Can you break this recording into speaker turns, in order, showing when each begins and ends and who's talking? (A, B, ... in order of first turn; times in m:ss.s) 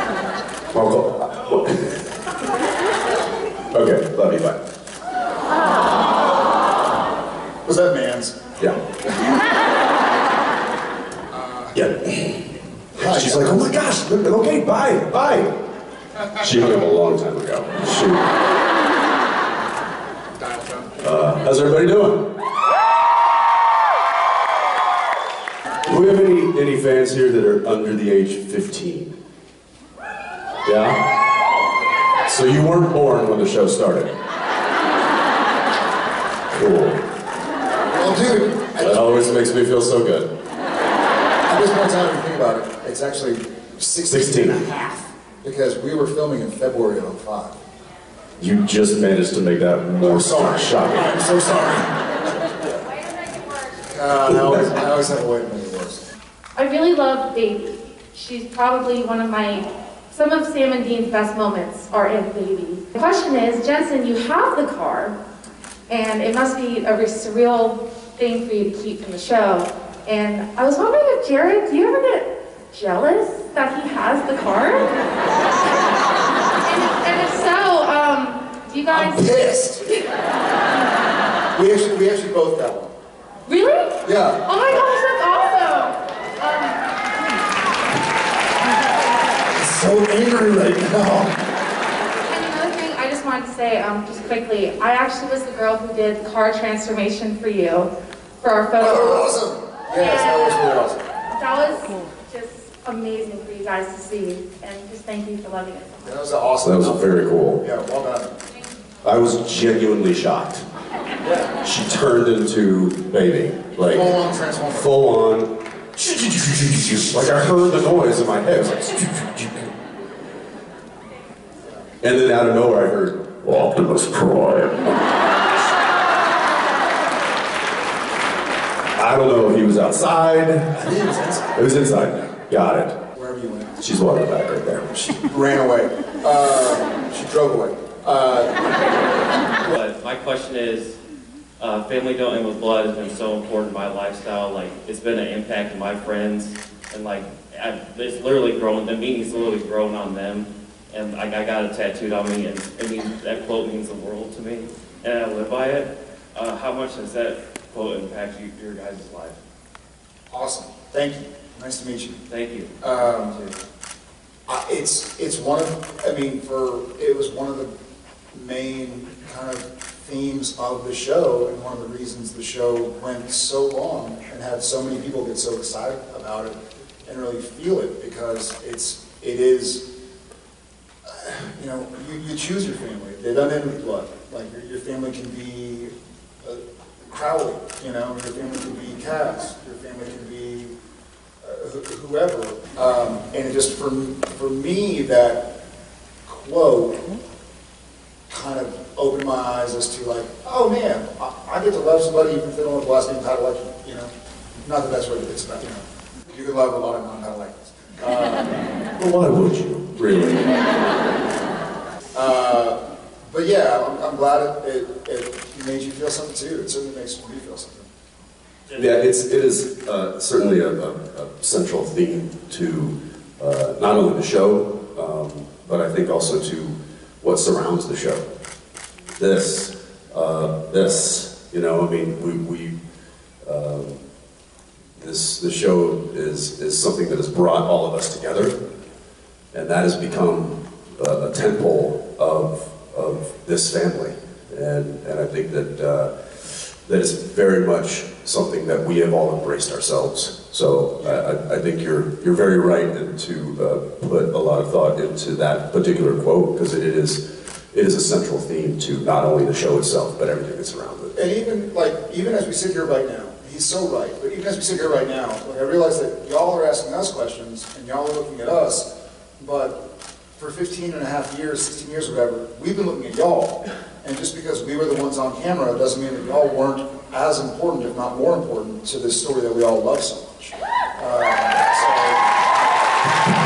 0:00.7-0:02.0 A
0:03.7-0:04.6 A
0:07.6-0:08.4 B
0:11.3-0:11.8 B
0:11.7-0:15.6 A
0:13.0-0:13.7 B
0:16.4-0:18.3 A
0:20.4-0:20.9 B
0:21.0-0:22.3 A
0:25.8-0:29.1 A
0:30.6-0:31.1 A
0:32.3-0:34.2 A
0:36.5-0:37.0 A
0:37.9-0:39.4 B
0:38.8-0:40.3 A
0:41.5-0:47.6 B
0:44.1-0:44.6 A
0:48.4-0:51.2 A
0:50.0-0:52.8 B
0:53.9-0:56.0 B
0:54.3-0:54.7 A
0:56.6-1:05.2 C
1:05.9-1:14.9 C
1:16.6-1:19.4 C
1:18.9-1:19.9 B
1:21.6-1:22.9 B
1:23.5-1:26.8 C
1:24.0-1:24.5 B
1:29.5-1:31.4 B
1:32.3-1:39.3 C
1:38.8-1:41.0 B
1:39.9-1:40.6 C
1:41.3-1:46.0 C
1:46.0-1:48.3 B
1:46.6-1:47.6 A
1:49.0-1:50.6 A
1:51.2-1:51.5 B
1:51.6-1:54.2 A
1:53.8-1:55.0 B
1:54.7-1:59.7 A
2:02.0-2:04.8 A
2:09.0-2:10.8 A
2:10.8-2:11.6 B
2:11.6-2:13.0 A
2:13.1-2:13.8 B
2:13.8-2:15.0 A
2:15.1-2:18.5 B
2:19.6-2:21.0 D
2:21.6-2:39.4 D
2:40.3-2:42.2 B
2:42.3-2:43.5 D
2:42.8-2:43.4 B
2:44.5-2:47.7 B
2:48.3-2:59.8 B
3:01.0-3:05.9 B
3:06.4-3:10.7 B
3:11.4-3:15.5 B
3:16.3-3:17.1 B
3:18.3-3:28.6 B
3:29.0-3:30.6 A
3:32.1-3:37.9 B
3:38.7-3:48.2 A
3:49.2-3:52.8 A
3:53.4-3:54.0 A
3:55.0-3:58.6 A
3:59.5-4:17.2 A
4:17.7-4:21.1 A
4:21.1-4:28.9 B
4:29.4-4:29.8 B
4:30.4-4:42.3 B